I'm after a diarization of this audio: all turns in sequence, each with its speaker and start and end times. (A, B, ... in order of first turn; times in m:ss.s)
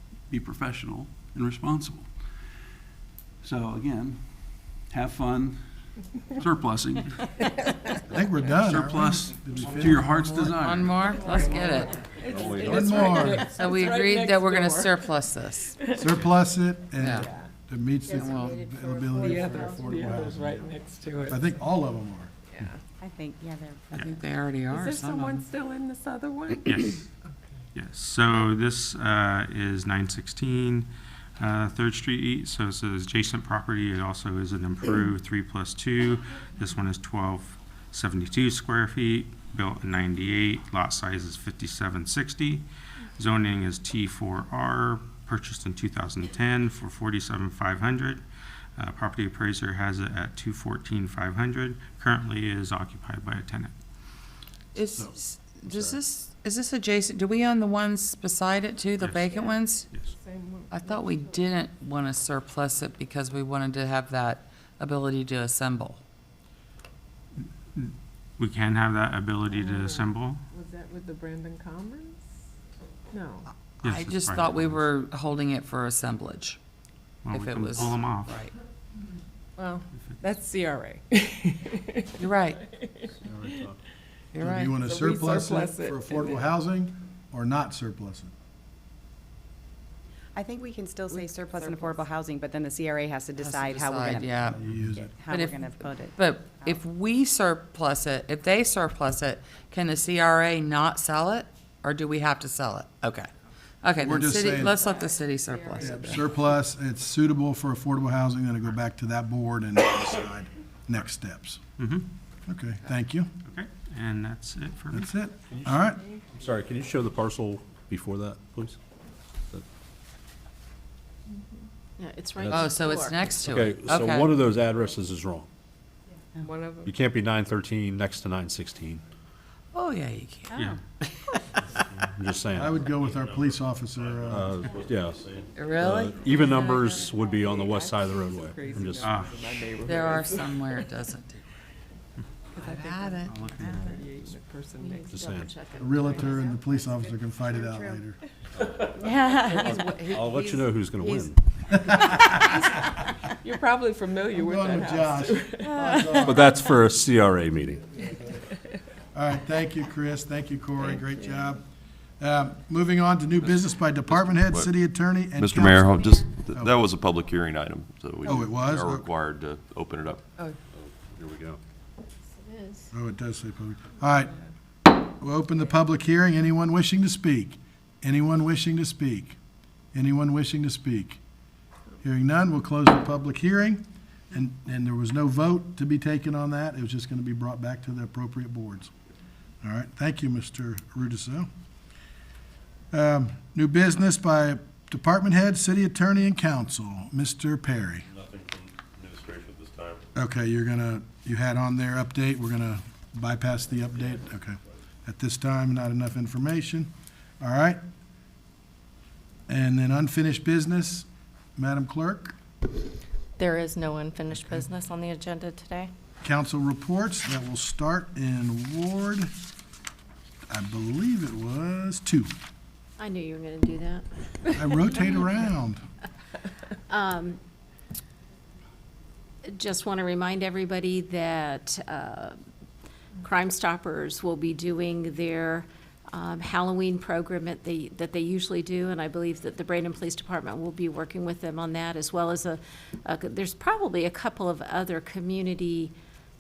0:00.3-0:02.1 A
0:03.4-0:04.3 A
0:04.9-0:05.6 A
0:06.3-0:07.2 A
0:08.1-0:10.6 B
0:08.6-0:11.0 A
0:10.5-0:12.0 C
0:11.3-0:15.1 D
0:12.2-0:13.3 E
0:12.6-0:13.5 B
0:13.4-0:15.7 C
0:15.7-0:16.3 D
0:16.0-0:20.7 B
0:17.0-0:17.3 C
0:17.2-0:17.5 D
0:18.0-0:20.3 F
0:18.1-0:18.6 C
0:19.2-0:21.6 D
0:21.3-0:22.3 B
0:22.5-0:22.8 D
0:23.0-0:24.0 G
0:23.9-0:24.2 H
0:24.0-0:25.5 C
0:24.7-0:26.6 D
0:26.6-0:27.0 H
0:27.7-0:30.9 H
0:31.4-0:42.6 H
0:43.2-0:48.2 H
0:48.8-0:53.7 H
0:54.7-0:59.9 C
0:55.6-0:56.0 I
0:59.0-0:59.4 H
0:59.3-1:01.5 D
1:00.7-1:06.0 C
1:07.7-1:10.4 H
1:09.5-1:12.3 D
1:13.1-1:13.4 D
1:13.8-1:14.8 H
1:13.8-1:16.6 C
1:17.2-1:18.4 H
1:17.3-1:18.5 C
1:19.6-1:22.1 D
1:22.2-1:22.6 C
1:22.6-1:23.1 D
1:23.3-1:23.7 B
1:24.3-1:24.7 C
1:24.4-1:28.3 B
1:24.7-1:26.4 D
1:30.3-1:36.8 G
1:31.1-1:31.8 D
1:33.4-1:34.6 C
1:34.4-1:35.1 B
1:35.2-1:43.3 C
1:43.8-1:46.4 C
1:44.0-1:44.8 B
1:44.8-1:46.2 D
1:45.8-1:51.6 B
1:51.8-1:52.0 H
1:52.5-1:53.3 B
1:53.4-1:55.1 H
1:54.9-1:56.0 B
1:55.5-1:58.8 I
2:02.0-2:03.4 F
2:02.4-2:02.7 I
2:02.5-2:04.3 C
2:03.4-2:05.5 I
2:06.4-2:06.9 D
2:06.8-2:09.0 I
2:09.7-2:11.4 C
2:10.5-2:10.8 H
2:12.1-2:12.7 I
2:12.5-2:14.5 B
2:12.8-2:16.9 E
2:14.3-2:15.2 I
2:15.5-2:17.0 C
2:15.8-2:19.1 I
2:17.0-2:20.9 D
2:19.0-2:19.3 H
2:19.8-2:21.4 C
2:22.6-2:24.0 C
2:22.6-2:25.2 D
2:23.2-2:24.3 H
2:24.7-2:28.0 F
2:25.1-2:25.5 I
2:25.8-2:28.2 B
2:29.0-2:30.3 F
2:29.6-2:32.3 I
2:31.0-2:31.3 F
2:32.2-2:32.8 D
2:33.4-2:36.1 D
2:34.4-2:36.6 B
2:36.2-2:37.9 I
2:39.1-2:41.6 B
2:42.2-2:45.9 B
2:43.4-2:44.7 J
2:45.4-2:50.2 J
2:46.5-2:46.8 B
2:48.2-2:49.1 B
2:50.8-2:51.6 I
2:52.4-2:52.9 F
2:52.9-2:54.3 B
2:55.0-2:59.4 B
2:59.9-3:01.2 B
3:02.0-3:08.9 B
3:09.6-3:11.5 B
3:12.9-3:18.0 B
3:18.1-3:20.0 E
3:20.1-3:27.8 B
3:29.5-3:32.4 B
3:33.4-3:35.9 F
3:34.3-3:34.7 B
3:36.2-3:39.3 B
3:40.5-3:42.3 B
3:43.0-3:44.6 F
3:44.5-3:45.8 B
3:46.9-3:47.4 F
3:49.5-3:52.3 F
3:53.2-4:05.9 F